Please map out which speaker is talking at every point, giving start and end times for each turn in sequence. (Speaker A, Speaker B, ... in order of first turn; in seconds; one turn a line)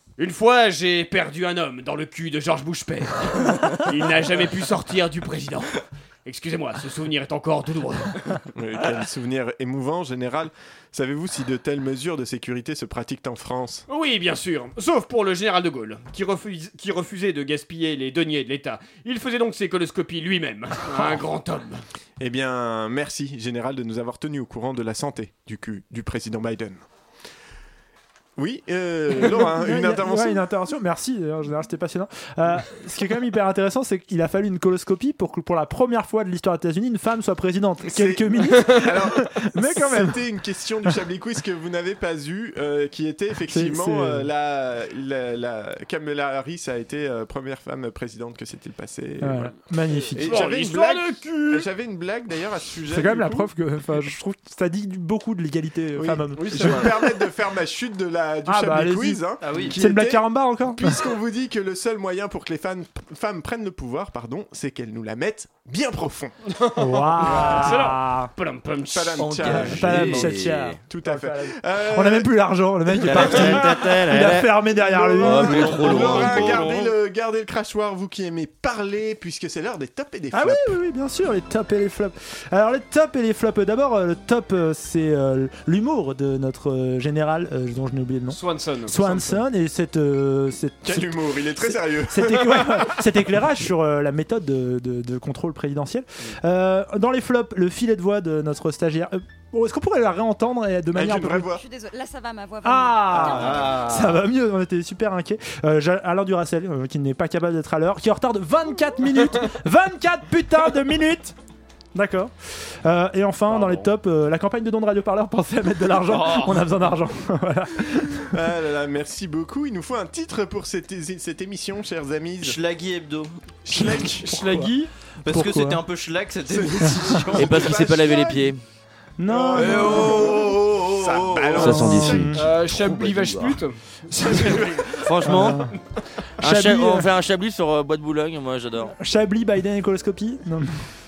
Speaker A: 0.2-8.4
Speaker B: 8.6-13.8
Speaker A: 13.9-21.8
Speaker B: 22.2-26.8
Speaker B: 28.4-30.4
Speaker C: 29.3-40.2
Speaker B: 37.9-49.6
Speaker C: 43.5-44.3
Speaker C: 49.2-50.4
Speaker B: 50.2-53.5
Speaker A: 50.2-51.7
Speaker C: 52.9-57.1
Speaker B: 56.0-66.3
Speaker A: 56.4-57.0
Speaker C: 58.5-61.0
Speaker D: 59.4-59.7
Speaker A: 66.6-69.4
Speaker C: 66.8-68.3
Speaker B: 67.3-67.6
Speaker B: 68.9-70.3
Speaker E: 69.2-70.8
Speaker C: 69.5-75.8
Speaker B: 70.9-72.5
Speaker E: 73.0-74.7
Speaker B: 73.2-73.6
Speaker B: 74.9-80.8
Speaker E: 75.2-76.7
Speaker D: 75.8-76.8
Speaker C: 80.3-101.5
Speaker A: 88.3-89.4
Speaker B: 90.8-93.0
Speaker B: 100.9-101.6
Speaker F: 101.5-103.6
Speaker C: 102.6-111.4
Speaker D: 103.1-104.2
Speaker C: 112.0-118.3
Speaker D: 113.5-113.8
Speaker D: 116.1-116.6
Speaker B: 118.3-122.6
Speaker D: 122.4-123.3
Speaker B: 123.7-124.3
Speaker C: 123.7-124.8
Speaker A: 124.2-124.9
Speaker D: 125.2-127.9
Speaker C: 125.3-125.8
Speaker B: 126.5-128.6
Speaker C: 126.8-127.2
Speaker E: 127.3-128.6
Speaker C: 129.2-130.2
Speaker B: 129.3-132.3
Speaker E: 129.6-133.6
Speaker C: 131.6-132.4
Speaker A: 132.4-135.5
Speaker C: 134.1-135.7
Speaker E: 135.0-135.7
Speaker C: 136.4-137.1
Speaker E: 136.4-138.9
Speaker C: 139.0-140.8